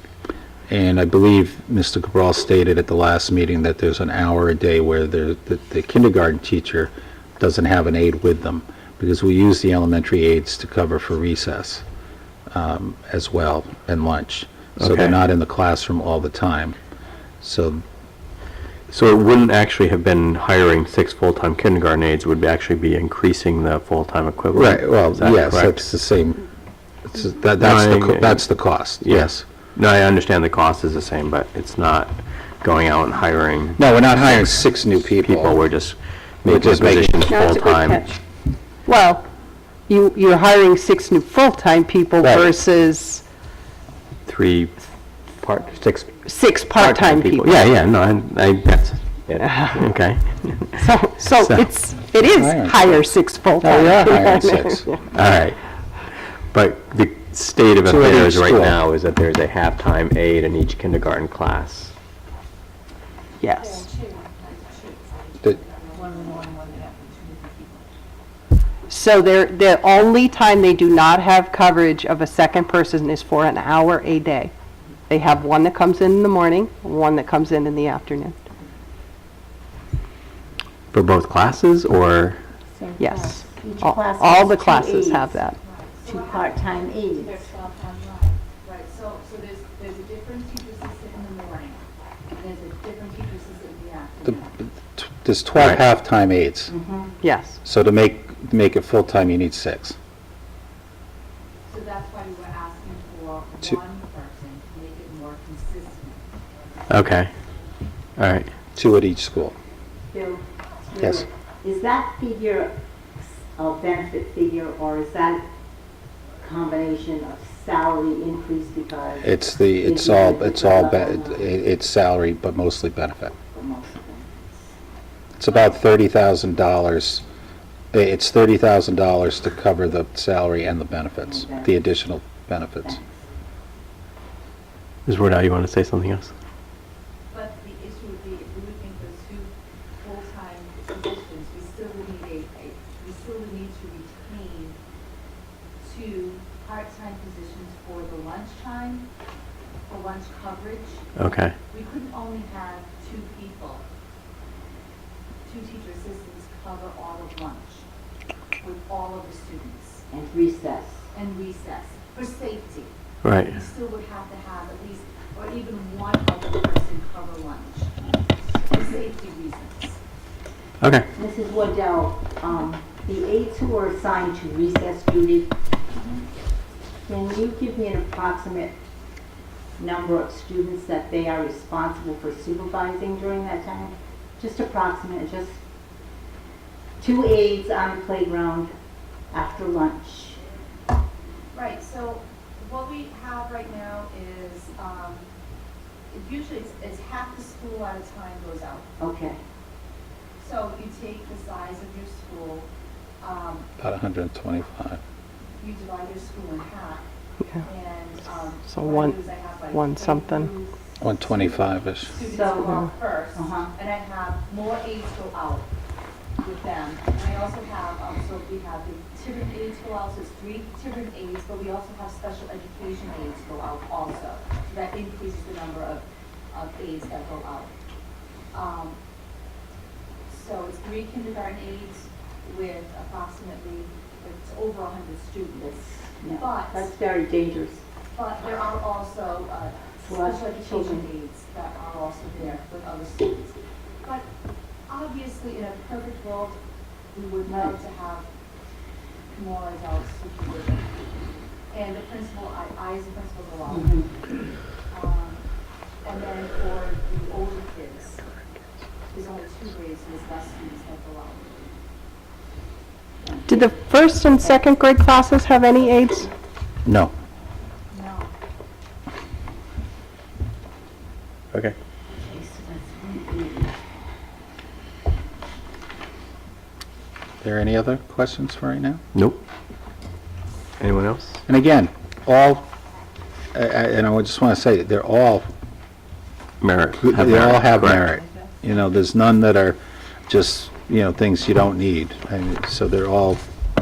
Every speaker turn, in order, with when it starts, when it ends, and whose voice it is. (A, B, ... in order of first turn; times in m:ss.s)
0:00.7-0:11.8 A
0:12.5-0:16.8 A
0:14.8-0:15.2 B
0:17.4-0:17.8 A
0:18.9-0:25.8 B
0:24.5-0:26.5 A
0:27.1-0:29.4 A
0:27.6-0:38.2 B
0:33.8-0:35.6 A
0:36.4-0:37.4 A
0:37.3-0:38.1 C
0:38.8-0:39.2 C
0:39.9-0:43.3 C
0:42.2-0:42.6 A
0:44.3-0:44.8 B
0:45.4-0:46.2 B
0:46.2-0:47.7 C
0:46.8-0:50.8 B
0:49.4-0:49.8 C
0:50.8-0:55.0 C
0:51.4-0:51.6 B
0:52.2-0:54.9 A
0:55.1-1:01.9 B
0:57.8-0:58.8 A
1:03.4-1:03.9 C
1:03.6-1:07.9 D
1:08.9-1:14.5 C
1:15.1-1:18.4 C
1:20.9-1:22.4 B
1:22.8-1:25.3 E
1:23.0-1:25.6 C
1:25.6-1:31.8 D
1:26.1-1:27.5 E
1:32.4-1:34.6 D
1:35.0-1:36.7 A
1:36.7-1:37.1 E
1:37.2-1:37.6 C
1:37.6-1:40.0 A
1:41.7-1:46.2 D
1:46.9-1:47.3 B
1:48.2-1:48.5 B
1:48.8-1:49.6 A
1:50.1-1:55.5 E
1:51.0-1:51.3 A
1:56.4-2:01.5 E
1:59.2-2:03.4 A
2:03.5-2:04.6 E
2:05.4-2:07.2 A
2:07.9-2:13.0 A
2:11.2-2:11.8 E
2:12.8-2:13.2 E
2:15.1-2:16.3 B
2:17.3-2:24.8 D
2:25.8-2:29.1 D
2:29.9-2:33.8 D
2:31.2-2:31.6 B
2:35.4-2:37.9 D
2:38.6-2:40.0 D
2:40.1-2:41.0 E
2:41.1-2:47.9 D
2:43.2-2:43.6 B
2:48.7-2:50.0 D
2:50.8-2:51.1 B
2:51.2-2:55.5 E
2:57.1-2:58.8 E
2:59.8-3:05.6 E
3:07.0-3:08.7 E
3:09.3-3:10.4 E
3:11.5-3:15.4 D
3:16.1-3:18.9 D
3:19.0-3:19.4 E
3:20.4-3:22.7 D
3:23.2-3:23.7 D
3:23.8-3:25.0 A
3:25.6-3:27.0 D
3:27.6-3:35.7 D
3:28.7-3:29.2 C
3:29.7-3:30.5 C
3:31.0-3:32.1 A
3:32.2-3:33.7 E
3:36.4-3:47.7 D
3:48.5-3:49.0 D
3:50.3-3:55.8 D
3:55.6-3:57.8 E
3:56.4-3:56.9 D
3:58.1-4:04.3 D
4:00.0-4:01.1 E
4:04.9-4:06.6 D
4:07.1-4:08.3 D
4:07.5-4:07.8 E
4:09.3-4:10.9 D
4:11.7-4:14.0 D
4:13.7-4:14.1 E
4:14.9-4:15.4 D
4:16.0-4:18.2 D
4:19.1-4:21.7 D
4:23.2-4:23.8 D
4:23.5-4:26.3 C
4:26.8-4:27.1 A
4:27.9-4:28.3 D
4:32.1-4:33.8 E
4:37.4-4:39.0 A
4:39.1-4:39.4 B
4:40.8-4:41.4 B
4:41.5-4:42.7 A
4:43.5-4:45.5 A
4:46.6-4:48.1 B
4:47.0-4:53.4 A